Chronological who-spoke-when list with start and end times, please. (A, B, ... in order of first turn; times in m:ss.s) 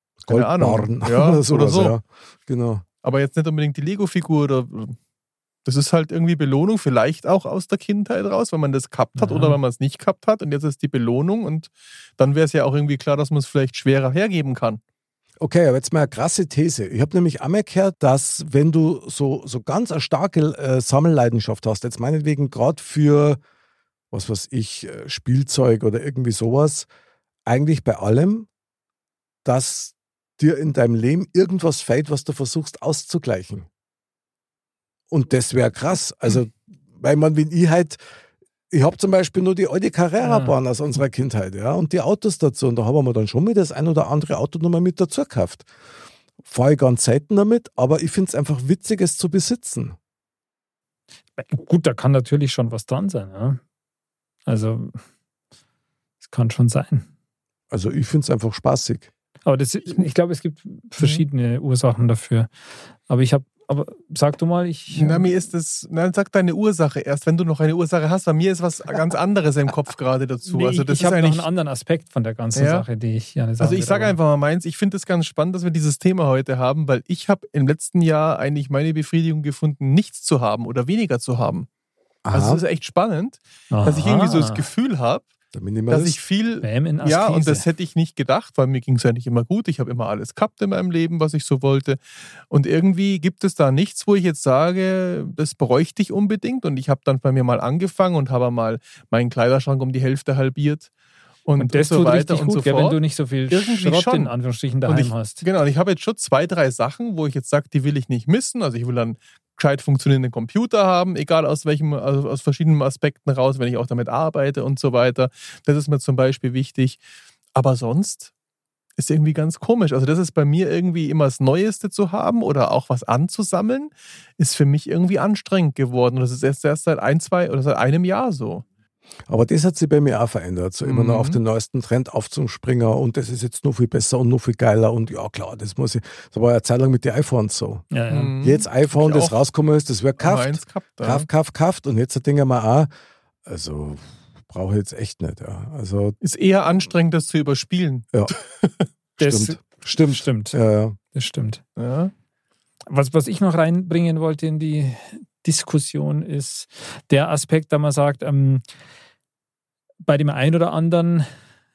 0:00.3-0:02.8 A
0:00.3-0:02.0 B
0:03.0-0:05.0 B
0:05.6-0:14.8 B
0:09.2-0:09.6 C
0:15.4-0:23.4 A
0:24.1-0:26.9 A
0:27.5-0:28.5 A
0:29.4-0:33.7 A
0:35.1-0:38.0 A
0:38.7-0:45.7 A
0:40.2-0:40.6 C
0:46.4-0:50.0 A
0:51.4-0:53.6 C
0:54.5-0:55.0 C
0:56.2-0:57.1 C
0:57.7-0:59.1 A
0:59.4-1:02.5 C
1:01.0-1:01.2 B
1:03.1-1:05.3 C
1:04.9-1:11.5 B
1:10.5-1:14.2 C
1:12.6-1:12.9 B
1:13.6-1:21.7 B
1:22.2-1:22.6 A
1:22.3-1:25.3 B
1:23.7-1:24.6 C
1:25.5-1:26.2 A
1:25.9-1:32.0 B
1:26.6-1:27.7 C
1:32.5-1:40.9 B
1:41.4-1:44.3 B
1:41.6-1:45.4 C
1:44.9-1:57.0 B
1:57.6-1:58.3 B
1:59.0-2:08.6 B
2:09.3-2:22.9 A
2:10.8-2:11.4 B
2:17.9-2:18.3 C
2:18.1-2:19.4 B
2:20.2-2:21.3 B
2:23.5-2:26.2 A
2:26.2-2:28.8 B
2:29.2-2:31.0 A
2:29.2-2:30.6 C
2:31.1-2:31.6 C
2:31.8-2:32.1 B
2:32.9-2:38.6 C
2:40.0-2:41.3 C